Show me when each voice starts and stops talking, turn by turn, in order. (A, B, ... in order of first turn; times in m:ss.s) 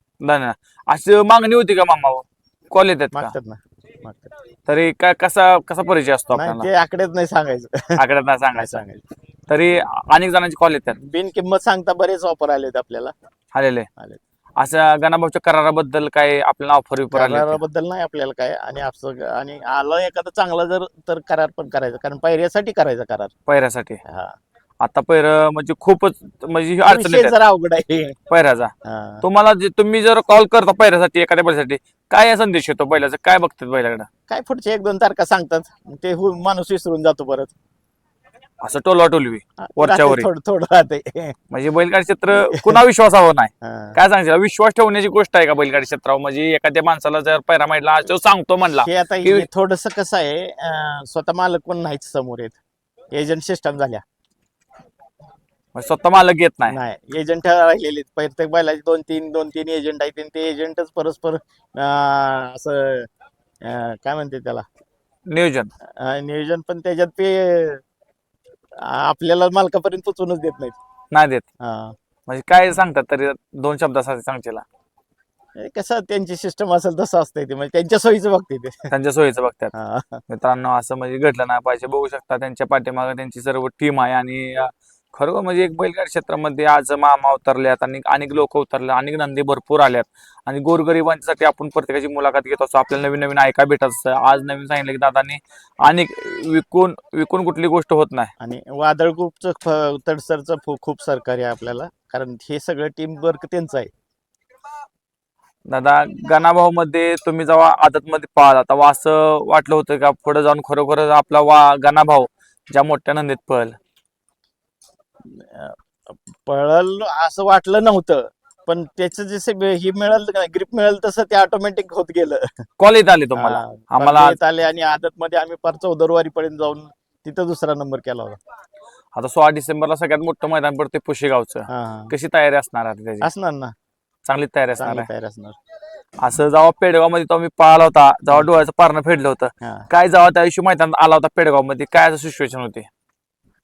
0:00.2-0:03.3 A
0:03.1-0:04.3 B
0:04.7-0:06.7 A
0:06.3-0:08.0 B
0:08.0-0:08.8 A
0:08.6-0:09.0 B
0:09.5-0:11.0 A
0:11.0-0:13.1 B
0:13.5-0:13.9 A
0:14.6-0:17.6 A
0:17.1-0:23.3 B
0:23.5-0:24.0 A
0:24.1-0:24.3 B
0:24.8-0:27.4 A
0:26.9-0:28.2 B
0:28.3-0:34.1 A
0:28.8-0:29.2 B
0:34.3-0:37.5 B
0:38.6-0:40.3 A
0:39.6-0:41.4 B
0:41.5-0:49.5 A
0:42.3-0:42.8 B
0:43.6-0:44.0 B
0:48.8-0:52.6 B
0:53.1-0:54.0 B
0:55.8-0:56.8 A
0:56.7-1:03.1 B
1:03.6-1:04.6 B
1:05.3-1:05.7 A
1:06.0-1:07.8 B
1:08.8-1:10.8 B
1:11.1-1:11.5 A
1:11.6-1:12.0 B
1:12.3-1:14.6 A
1:15.6-1:18.9 B
1:18.9-1:19.7 A
1:19.7-1:20.2 B
1:20.3-1:38.3 A
1:38.4-1:43.9 B
1:45.7-1:53.8 A
1:55.2-2:02.6 B
2:02.8-2:04.4 A
2:03.4-2:08.4 B
2:09.2-2:13.3 A
2:11.7-2:12.1 B
2:13.2-2:13.7 B
2:14.3-2:15.1 A
2:14.8-2:15.6 B
2:16.2-2:22.9 A
2:19.6-2:19.9 B